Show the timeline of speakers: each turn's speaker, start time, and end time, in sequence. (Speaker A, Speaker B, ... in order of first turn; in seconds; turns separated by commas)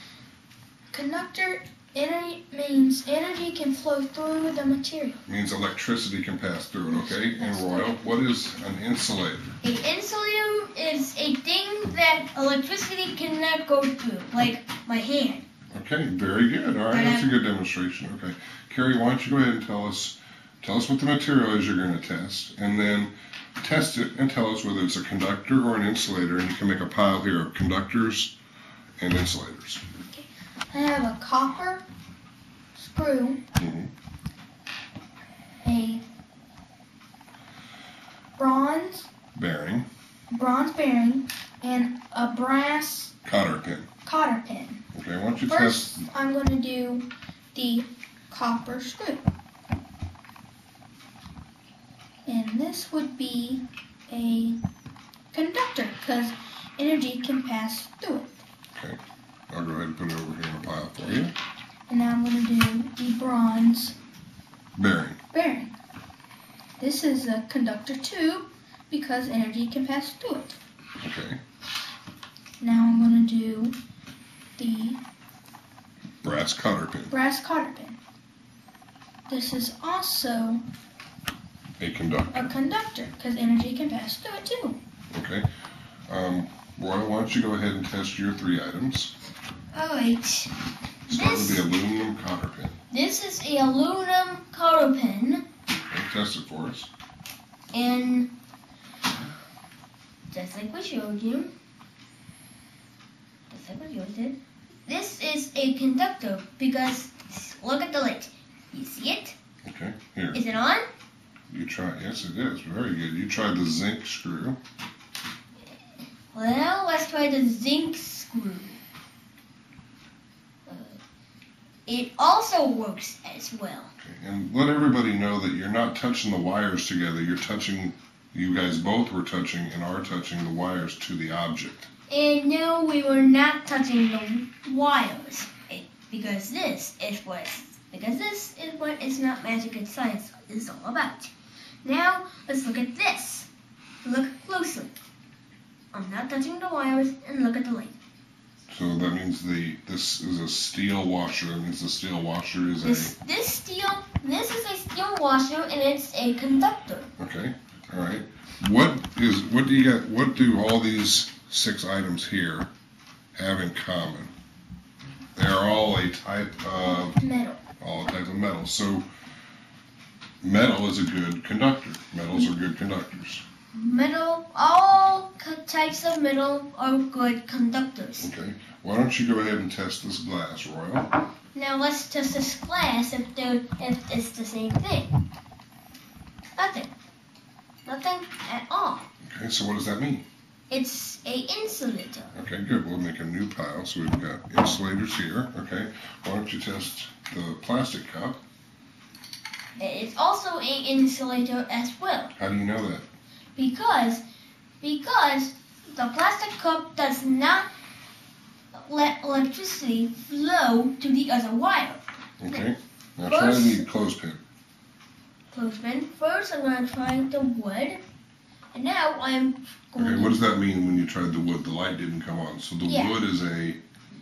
Speaker A: 0.9-5.2, Speaker B: 5.2-9.6, Speaker A: 6.9-8.0, Speaker C: 9.6-15.4, Speaker B: 15.7-28.3, Speaker C: 16.9-17.3, Speaker B: 29.0-29.8, Speaker A: 30.1-31.8, Speaker A: 32.8-33.4, Speaker B: 33.6-33.9, Speaker A: 35.6-36.0, Speaker A: 38.4-39.1, Speaker B: 39.3-39.9, Speaker A: 40.3-43.1, Speaker B: 43.2-43.9, Speaker A: 44.0-44.8, Speaker B: 44.9-46.0, Speaker A: 45.5-49.2, Speaker A: 52.2-54.6, Speaker A: 55.3-58.3, Speaker B: 59.5-61.3, Speaker A: 61.9-64.0, Speaker B: 64.8-65.2, Speaker A: 65.3-65.8, Speaker A: 66.8-70.5, Speaker B: 71.0-71.4, Speaker A: 72.6-73.8, Speaker A: 74.6-75.0, Speaker B: 76.2-77.1, Speaker A: 77.1-78.0, Speaker A: 79.3-80.6, Speaker B: 81.8-82.5, Speaker A: 82.3-84.8, Speaker B: 85.1-85.5, Speaker B: 86.1-89.1, Speaker C: 89.7-90.5, Speaker B: 91.1-92.8, Speaker C: 91.1-91.6, Speaker C: 92.9-95.4, Speaker B: 95.9-96.9, Speaker C: 97.7-98.3, Speaker C: 100.3-101.5, Speaker C: 103.5-109.3, Speaker B: 109.6-110.4, Speaker C: 110.3-110.8, Speaker B: 111.5-114.6, Speaker C: 116.3-118.8, Speaker C: 120.7-121.0, Speaker C: 121.9-123.9, Speaker B: 124.0-131.9, Speaker C: 132.1-141.3, Speaker C: 141.8-143.5, Speaker C: 144.0-145.0, Speaker C: 145.9-147.9, Speaker B: 148.7-153.1, Speaker C: 152.8-157.1, Speaker B: 157.2-162.7, Speaker B: 163.3-164.3, Speaker B: 165.3-167.2, Speaker A: 167.2-167.6, Speaker B: 167.8-169.1, Speaker B: 170.4-173.4, Speaker C: 173.7-178.3, Speaker B: 178.2-181.1, Speaker C: 181.5-185.1, Speaker C: 186.6-186.9, Speaker C: 187.8-189.1, Speaker B: 189.3-190.2, Speaker C: 190.7-192.3, Speaker B: 192.3-198.4, Speaker C: 199.8-202.3, Speaker B: 202.4-203.1, Speaker C: 203.6-204.2, Speaker C: 204.8-207.7, Speaker C: 208.8-212.6, Speaker B: 212.4-214.4, Speaker C: 213.2-213.8, Speaker C: 215.5-218.0, Speaker C: 218.7-220.4, Speaker B: 220.0-223.8, Speaker C: 222.9-223.2